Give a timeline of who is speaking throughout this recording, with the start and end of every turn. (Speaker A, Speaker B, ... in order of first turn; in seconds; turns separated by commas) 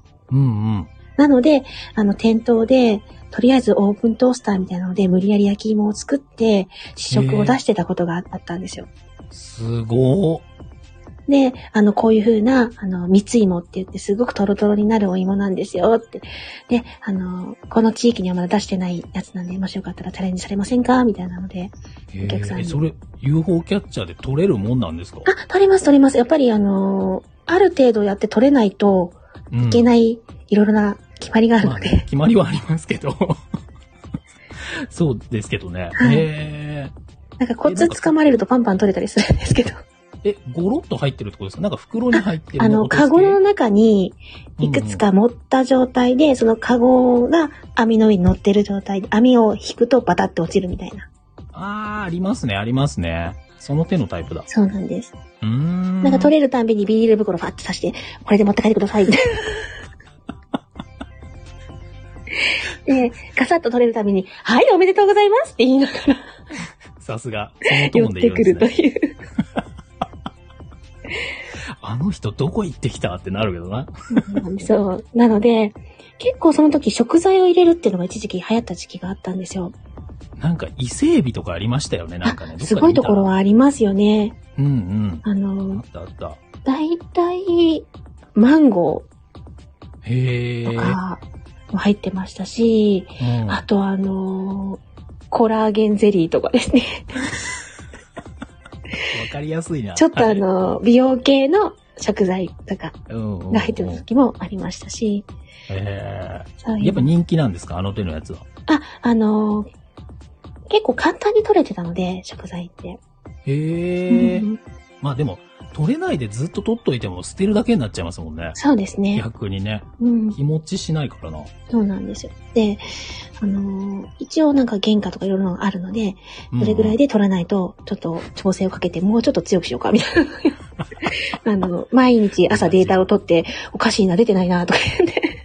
Speaker A: 0.3-0.9, Speaker B: 1.2-8.9, Speaker A: 7.1-7.6, Speaker A: 9.3-10.4, Speaker B: 11.3-22.8, Speaker A: 22.1-25.3, Speaker B: 25.2-32.0, Speaker A: 29.5-29.9, Speaker A: 31.6-33.4, Speaker A: 34.6-36.9, Speaker B: 36.0-36.2, Speaker B: 37.4-39.8, Speaker A: 37.6-38.1, Speaker A: 40.2-43.4, Speaker B: 42.1-51.1, Speaker A: 44.6-45.0, Speaker A: 51.5-54.5, Speaker B: 54.5-55.1, Speaker A: 55.4-56.3, Speaker B: 56.0-59.7, Speaker B: 62.8-66.3, Speaker A: 67.0-68.7, Speaker B: 67.8-69.1, Speaker A: 71.8-74.3, Speaker B: 74.1-79.8, Speaker A: 80.4-83.3, Speaker B: 82.2-84.4, Speaker A: 84.5-86.4, Speaker B: 85.2-85.8, Speaker B: 86.6-89.1, Speaker A: 90.0-91.0, Speaker B: 90.7-97.0, Speaker A: 93.2-93.6, Speaker A: 99.1-100.4, Speaker B: 100.0-103.0, Speaker A: 103.1-104.0, Speaker B: 103.5-105.3, Speaker A: 105.7-108.4, Speaker B: 106.6-107.1, Speaker B: 108.7-109.7, Speaker B: 110.7-113.0, Speaker A: 113.5-114.5, Speaker B: 114.1-114.6, Speaker A: 115.0-118.6, Speaker B: 118.5-119.2, Speaker A: 119.1-121.5, Speaker B: 120.0-120.4, Speaker B: 121.7-122.8, Speaker B: 123.4-135.3, Speaker A: 126.5-127.0, Speaker A: 132.4-133.1